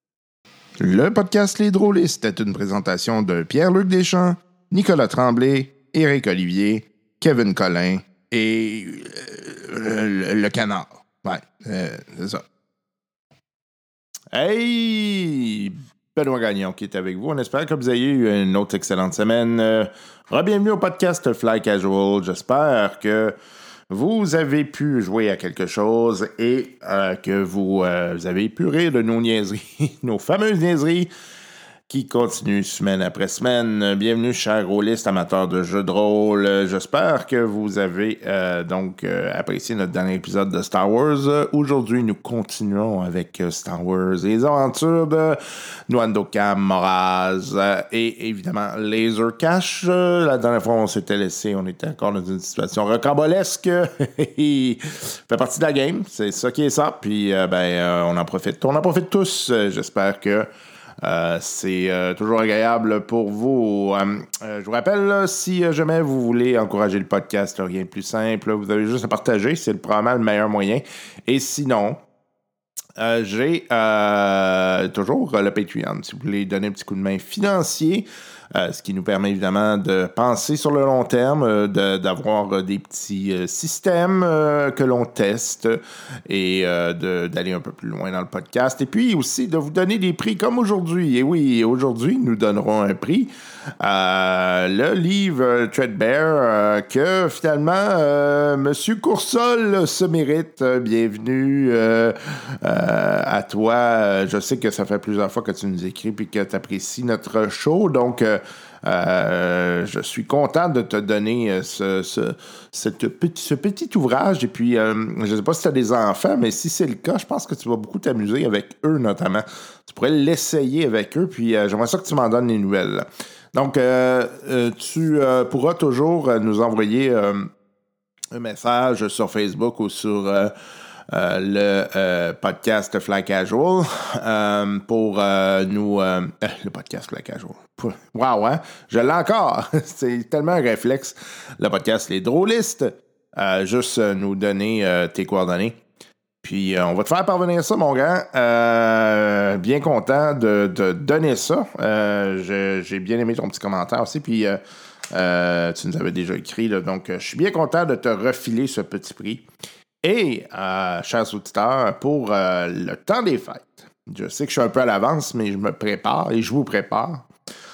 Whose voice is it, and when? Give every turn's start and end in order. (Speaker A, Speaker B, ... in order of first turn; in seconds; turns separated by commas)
Speaker A: 0.8-12.4, Speaker A: 14.3-23.3, Speaker A: 23.9-31.1, Speaker A: 31.9-60.5, Speaker A: 61.0-72.0, Speaker A: 73.0-127.5, Speaker A: 128.3-130.5, Speaker A: 131.1-145.8, Speaker A: 146.4-154.6, Speaker A: 155.1-159.5, Speaker A: 160.0-167.3